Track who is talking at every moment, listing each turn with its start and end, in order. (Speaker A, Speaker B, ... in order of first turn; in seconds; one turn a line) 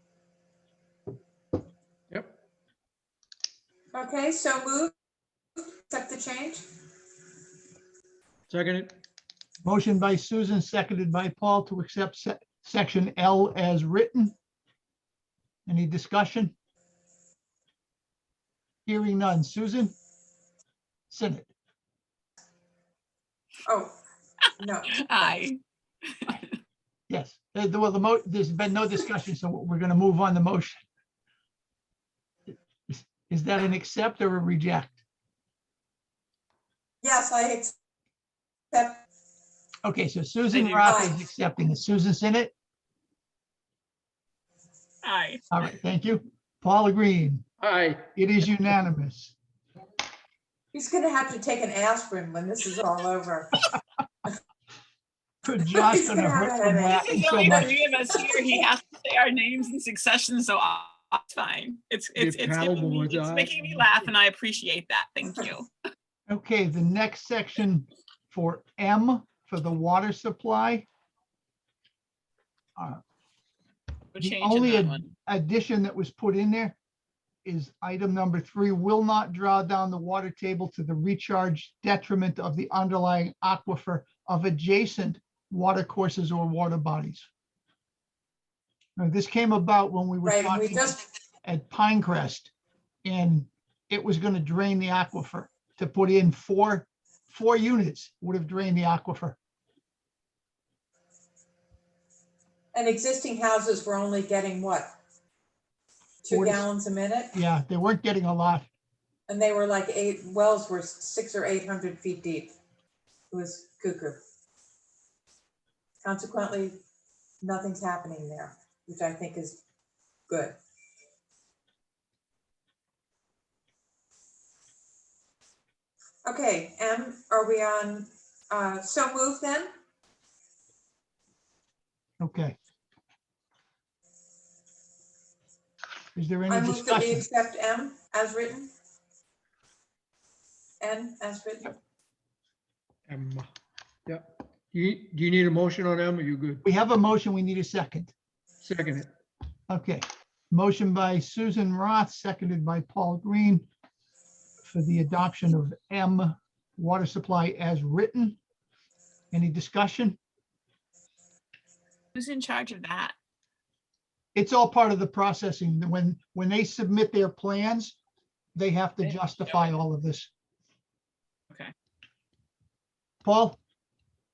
Speaker A: 3.9-4.9
Speaker A: 5.6-6.6
Speaker B: 8.5-8.9
Speaker C: 9.6-14.3
Speaker C: 15.7-16.5
Speaker C: 18.9-19.9
Speaker C: 21.1-21.5
Speaker A: 23.6-24.0
Speaker A: 24.6-25.4
Speaker D: 25.0-25.6
Speaker D: 26.2-26.5
Speaker C: 27.1-30.8
Speaker C: 32.5-35.0
Speaker A: 37.0-37.7
Speaker A: 38.7-39.0
Speaker C: 39.8-42.5
Speaker D: 40.5-40.9
Speaker A: 40.8-41.2
Speaker D: 45.0-45.4
Speaker C: 45.5-47.4
Speaker B: 47.6-48.1
Speaker C: 48.1-49.3
Speaker A: 50.7-53.7
Speaker C: 55.4-57.7
Speaker A: 55.7-57.6
Speaker D: 57.0-65.7
Speaker B: 62.1-63.9
Speaker C: 66.3-70.8
Speaker C: 72.8-73.0
Speaker D: 74.1-75.1
Speaker C: 74.2-76.8
Speaker C: 77.4-87.3
Speaker C: 89.0-92.5
Speaker A: 90.2-91.0
Speaker C: 93.0-99.4
Speaker A: 102.7-104.9
Speaker A: 106.2-107.3
Speaker C: 106.3-106.7
Speaker C: 107.3-108.7
Speaker A: 109.3-112.5
Speaker A: 113.3-114.2
Speaker A: 116.0-116.8
Speaker A: 117.4-119.6
Speaker A: 120.3-120.6
Speaker A: 126.2-129.7
Speaker C: 132.2-132.6
Speaker C: 136.1-137.2
Speaker A: 136.5-138.7
Speaker A: 140.8-141.8
Speaker B: 143.1-143.5
Speaker B: 144.1-146.6
Speaker C: 146.6-148.1
Speaker B: 148.6-149.1
Speaker C: 149.7-153.7
Speaker C: 154.6-158.4
Speaker C: 159.3-160.2
Speaker D: 162.1-163.1
Speaker C: 164.3-168.0
Speaker C: 168.6-170.3
Speaker C: 173.2-173.6